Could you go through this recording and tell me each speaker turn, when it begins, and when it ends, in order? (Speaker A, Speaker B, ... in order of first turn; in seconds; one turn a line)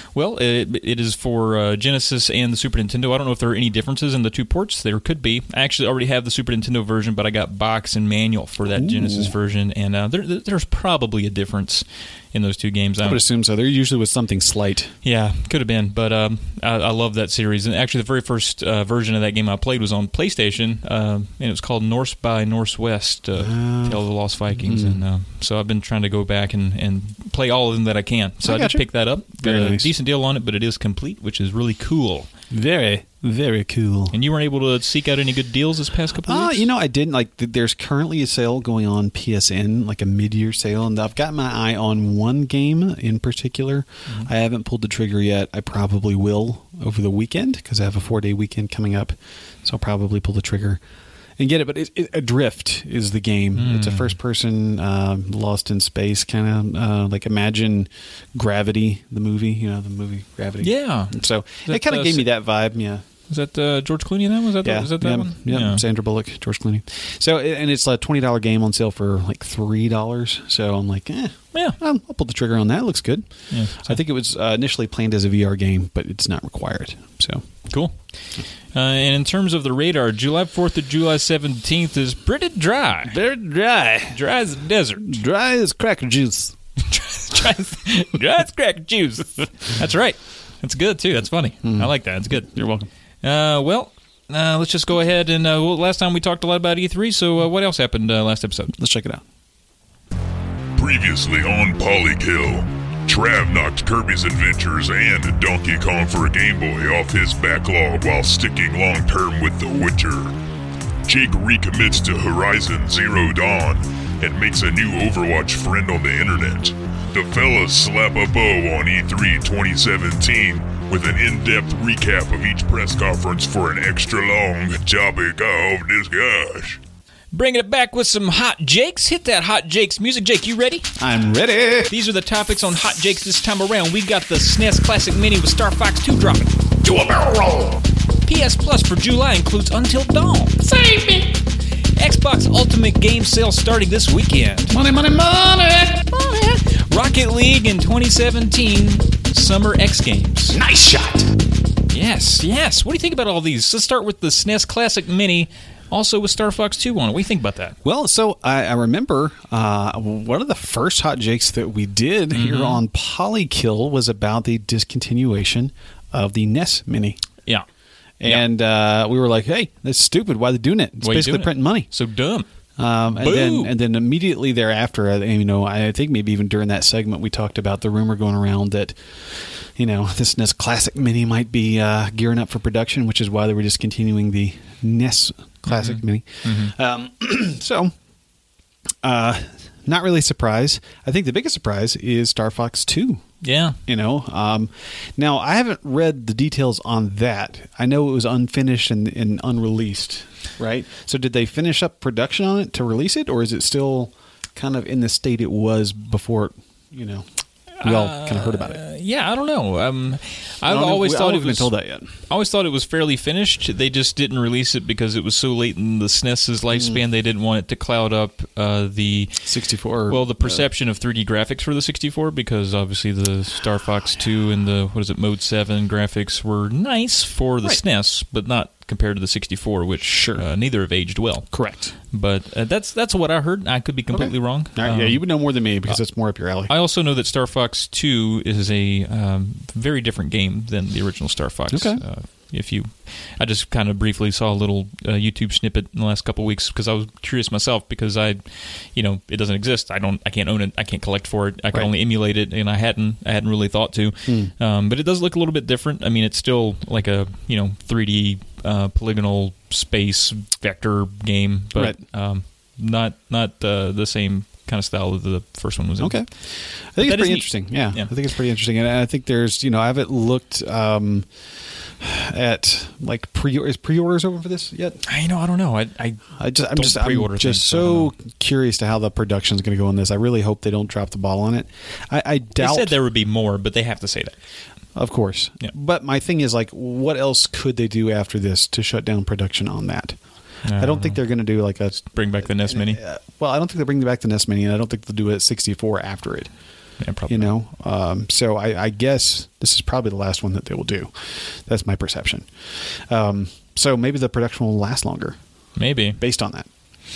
Speaker A: 0.1-13.2
Speaker B: 8.7-9.3
Speaker B: 13.0-14.9
Speaker A: 15.0-32.3
Speaker B: 23.4-24.0
Speaker B: 24.6-25.0
Speaker B: 28.4-28.9
Speaker B: 29.4-29.9
Speaker B: 32.5-34.2
Speaker A: 34.1-36.6
Speaker B: 36.2-50.8
Speaker B: 51.4-63.0
Speaker A: 53.6-54.1
Speaker A: 60.6-62.3
Speaker A: 63.3-65.8
Speaker B: 64.6-77.4
Speaker A: 73.5-73.9
Speaker A: 78.7-83.2
Speaker B: 83.1-84.2
Speaker A: 84.1-85.2
Speaker B: 85.0-86.5
Speaker A: 86.9-92.5
Speaker B: 91.7-92.9
Speaker A: 93.2-98.7
Speaker B: 98.8-99.2
Speaker C: 100.8-110.3
Speaker C: 111.1-126.8
Speaker A: 127.3-130.9
Speaker B: 131.0-131.9
Speaker A: 131.9-136.6
Speaker B: 136.8-137.8
Speaker A: 138.2-141.3
Speaker A: 142.0-144.7
Speaker B: 144.7-146.1
Speaker A: 146.1-150.6
Speaker B: 150.5-151.3
Speaker A: 151.9-157.8
Speaker B: 157.8-167.2
Speaker A: 162.3-162.8
Speaker B: 168.2-171.9
Speaker A: 171.0-172.5
Speaker B: 172.8-187.9
Speaker A: 173.2-173.7
Speaker A: 185.7-186.7
Speaker B: 189.0-193.2
Speaker A: 193.4-193.8
Speaker B: 193.9-207.3
Speaker A: 207.8-211.7
Speaker B: 207.8-208.8
Speaker B: 210.7-212.1
Speaker A: 212.3-219.4
Speaker B: 216.7-217.0
Speaker B: 219.5-220.6
Speaker A: 220.1-231.6
Speaker B: 230.1-230.4
Speaker B: 231.5-231.9
Speaker A: 232.1-236.0
Speaker B: 234.1-236.7
Speaker A: 236.7-266.3
Speaker B: 241.7-242.0
Speaker B: 254.3-254.5
Speaker B: 266.0-266.3
Speaker B: 266.9-271.3
Speaker A: 267.0-268.1
Speaker B: 272.0-275.0
Speaker A: 275.1-278.1
Speaker B: 276.4-282.9
Speaker A: 282.6-284.3
Speaker B: 284.9-290.2
Speaker A: 290.6-291.2
Speaker B: 290.8-296.5
Speaker A: 292.1-293.0
Speaker A: 297.0-297.5
Speaker B: 297.3-305.4
Speaker A: 305.8-306.2
Speaker B: 306.2-306.7